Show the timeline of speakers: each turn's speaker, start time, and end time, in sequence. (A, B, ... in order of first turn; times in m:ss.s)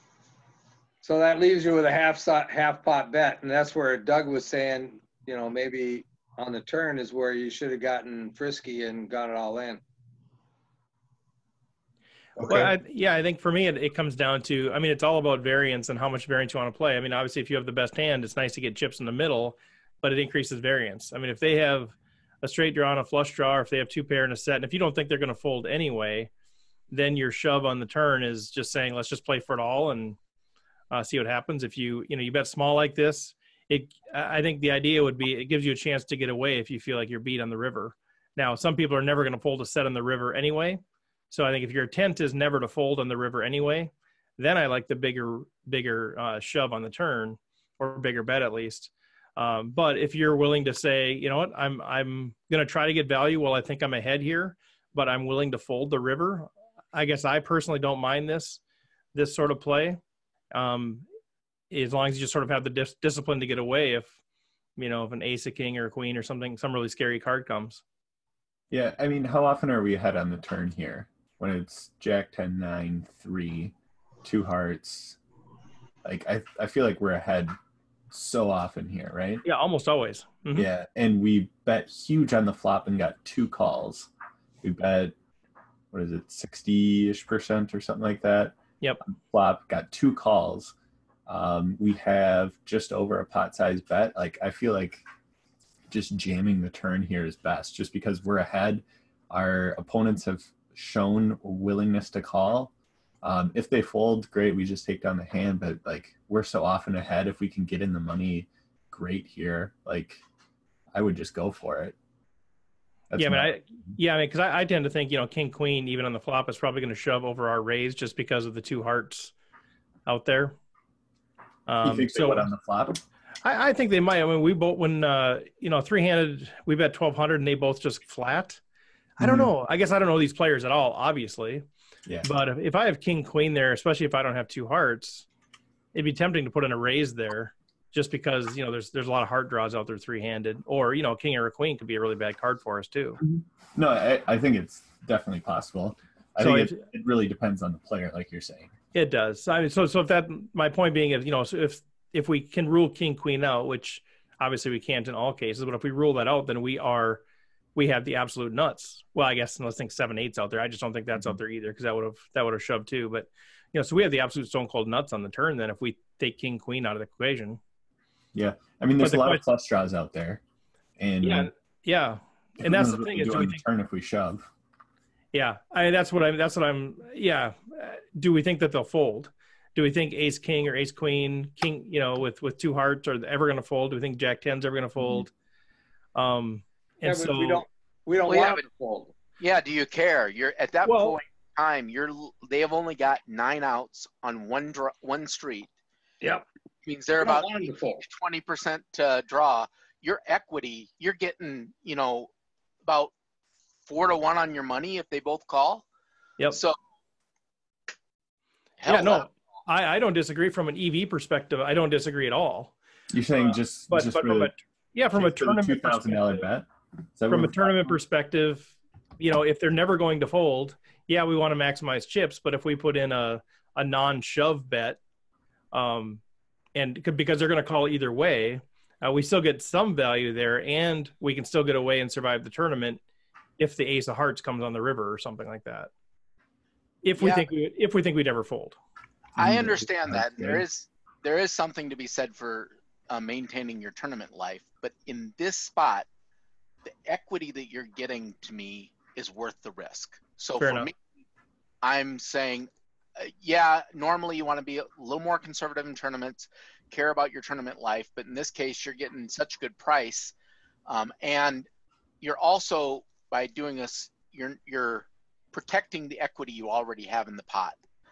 0:01.0-0:09.8 A
0:12.4-0:26.3 B
0:26.9-0:30.2 B
0:30.9-0:58.6 B
0:59.1-1:00.0 B
1:00.5-1:01.0 B
1:01.7-1:04.2 B
1:04.8-1:07.8 B
1:08.7-1:15.2 C
1:16.0-1:17.6 C
1:18.1-1:19.4 C
1:19.4-1:20.7 B
1:20.5-1:24.1 C
1:24.6-1:25.1 C
1:25.9-1:30.7 C
1:31.2-1:35.0 C
1:35.9-1:42.7 C
1:43.2-1:50.2 C
1:50.9-1:52.0 C
1:53.1-1:53.6 C
1:53.2-1:59.3 B
2:00.0-2:00.6 B
2:01.7-2:02.5 B
2:01.8-2:03.0 C
2:03.4-2:08.6 B
2:09.2-2:11.6 B
2:09.2-2:09.5 C
2:12.2-2:15.2 B
2:15.9-2:23.2 B
2:23.2-2:28.7 C
2:26.4-2:26.8 B
2:28.9-2:37.2 B
2:37.7-2:47.6 B
2:48.3-2:50.4 C
2:49.0-2:49.4 B
2:51.0-2:51.5 C
2:51.2-2:53.6 B
2:52.6-2:54.5 C
2:55.3-3:05.3 B
3:06.1-3:07.6 B
3:07.0-3:09.1 A
3:08.3-3:08.6 D
3:09.4-3:15.7 D
3:10.8-3:11.2 B
3:16.8-3:22.3 D
3:17.2-3:18.0 A
3:22.8-3:23.1 D
3:23.8-3:25.8 D
3:26.5-3:26.8 D
3:28.8-3:29.3 D
3:28.8-3:32.7 B
3:33.1-3:34.5 C
3:33.3-3:36.4 B
3:35.1-3:38.0 C
3:37.3-3:45.0 B
3:45.7-3:46.2 B
3:46.7-3:53.0 B
3:53.6-3:55.9 B
3:57.0-3:58.8 B
3:57.2-3:57.5 D
3:59.4-4:06.1 D
3:59.4-4:00.6 C
4:07.0-4:10.9 D
4:10.6-4:10.9 B
4:11.8-4:20.3 D
4:20.8-4:21.7 D
4:22.2-4:27.8 D